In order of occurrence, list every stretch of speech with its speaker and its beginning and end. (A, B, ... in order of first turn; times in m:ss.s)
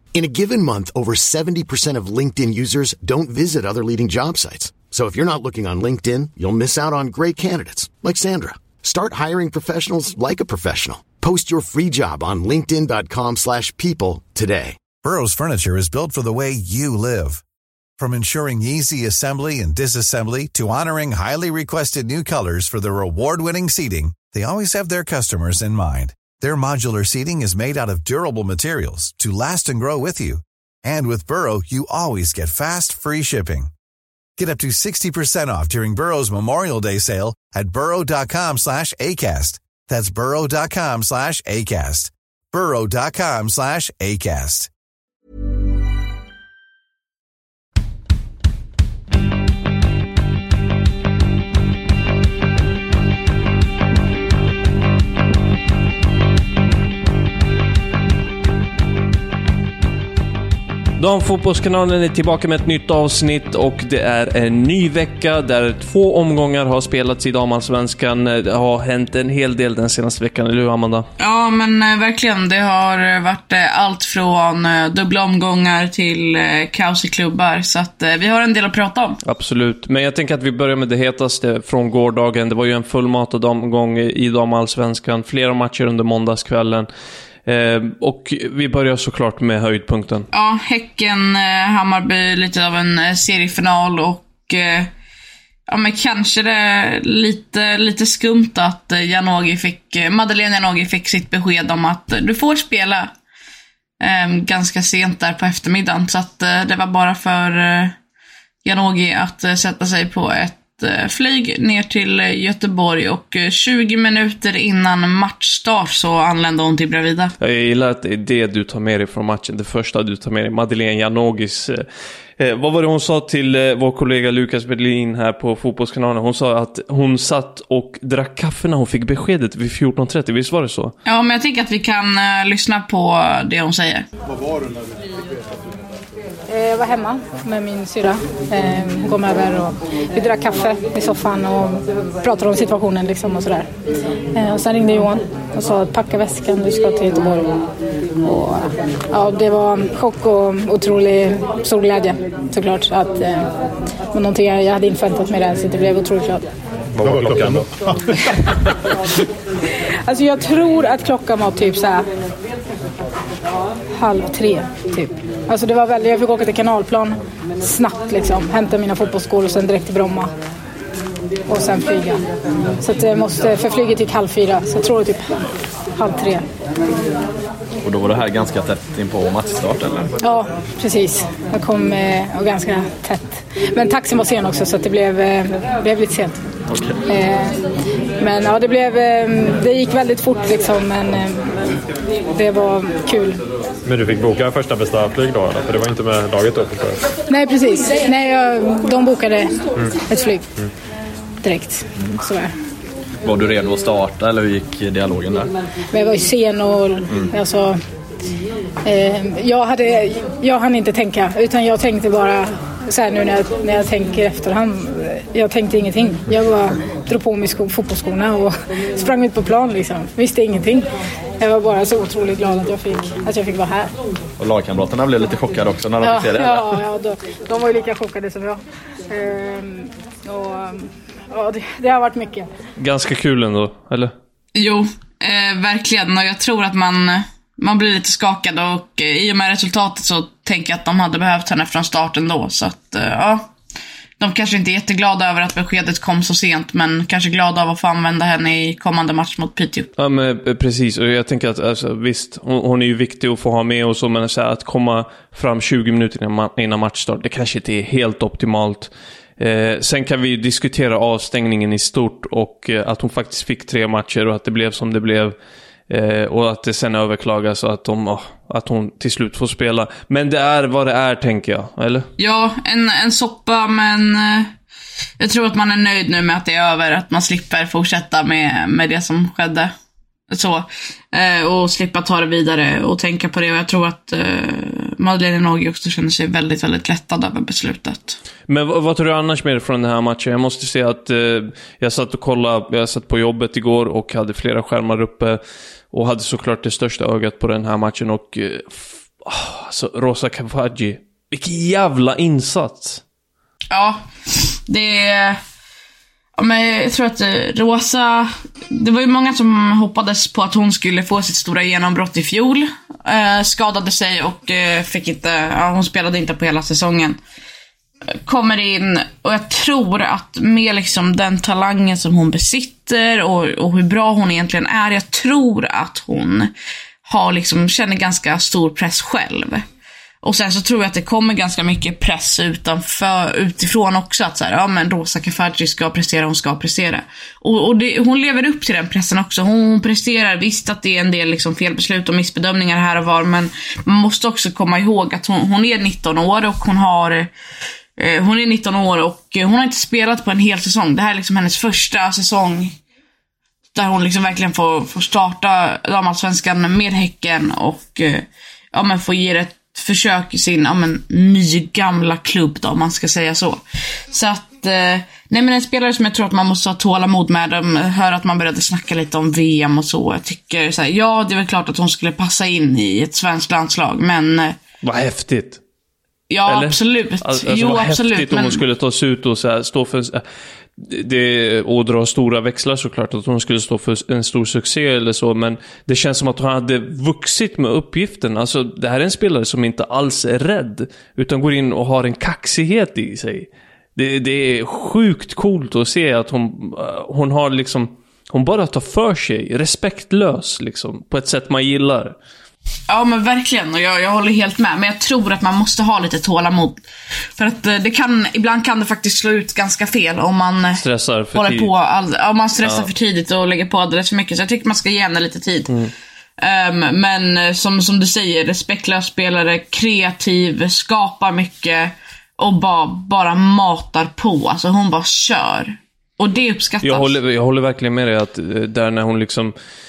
0:00.1-0:14.8 A
0:15.0-0:17.4 B
0:18.0-0:33.7 B
0:34.4-0:44.7 B
1:01.0-1:11.1 C
1:11.2-1:19.2 D
1:19.2-1:26.9 C
1:27.4-1:30.3 C
1:30.3-1:34.9 D
1:35.7-1:43.1 D
1:44.0-1:48.0 D
1:48.6-1:57.3 D
1:57.4-2:01.8 C
2:02.4-2:10.9 C
2:11.0-2:14.1 D
2:16.5-2:23.7 E
2:24.3-2:27.6 E
2:28.2-2:33.5 E
2:34.1-2:36.4 E
2:36.9-2:37.7 F
2:37.0-2:37.7 G
2:40.1-2:42.0 E
2:44.0-2:50.3 E
2:51.5-2:52.2 E
2:52.8-2:55.3 E
2:56.0-2:56.4 E
2:57.8-3:00.1 G
3:00.2-3:06.4 E
3:06.7-3:07.0 G
3:07.0-3:07.6 E
3:08.2-3:11.5 E
3:12.3-3:13.4 E
3:13.8-3:17.0 F
3:17.3-3:20.5 E
3:21.4-3:22.5 E
3:23.2-3:25.5 G
3:25.9-3:27.8 E
3:28.8-3:40.9 E
3:41.4-3:43.9 E
3:44.4-3:46.8 G
3:46.0-3:52.5 E
3:52.8-3:54.1 C
3:54.5-4:03.5 D
4:04.2-4:09.9 D
4:10.0-4:25.4 C
4:25.9-4:32.1 C
4:32.2-4:34.5 D
4:35.2-4:39.7 D
4:40.3-4:48.2 D
4:48.5-4:55.4 C
4:55.9-5:03.0 C
5:03.7-5:05.4 D
5:06.4-5:17.2 D
5:18.2-5:26.5 D
5:27.0-5:29.6 D
5:30.2-5:47.3 D
5:48.0-5:52.8 D
5:53.7-6:14.6 D
6:14.8-6:15.6 C
6:16.3-6:18.6 D
6:16.5-6:20.2 C
6:20.8-6:42.2 C
6:42.9-6:46.8 D
6:47.4-6:50.8 D
6:50.8-6:51.7 C
6:51.4-6:55.8 D
6:52.6-6:52.9 C
6:56.4-7:07.1 D
7:06.8-7:09.5 C